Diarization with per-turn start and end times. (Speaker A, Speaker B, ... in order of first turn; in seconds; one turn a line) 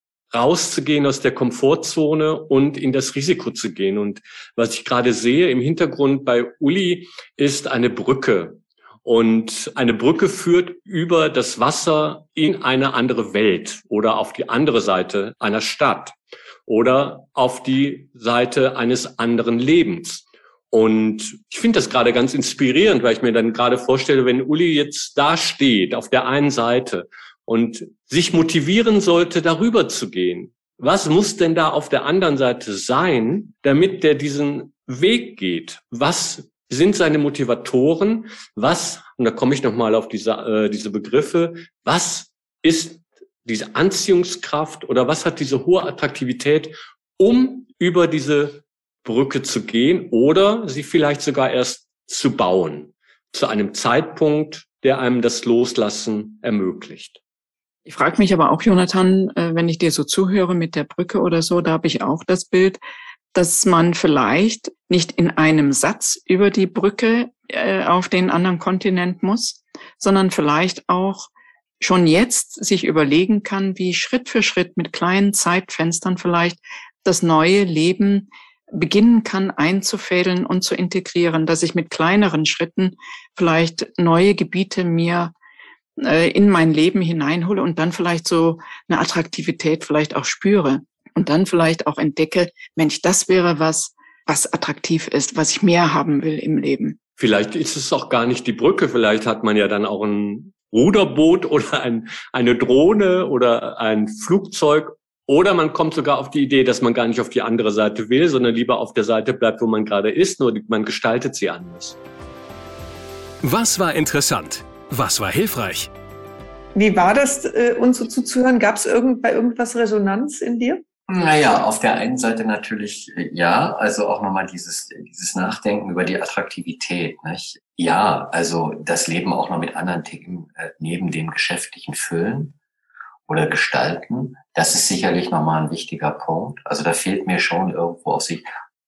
Speaker A: 0.3-57.2
Speaker B: 57.9-62.8
Speaker B: 63.3-85.3
Speaker B: 86.0-97.0
Speaker A: 97.2-112.0
Speaker C: 113.4-115.9
Speaker D: 116.7-120.8
Speaker E: 121.1-132.5
Speaker E: 133.3-138.4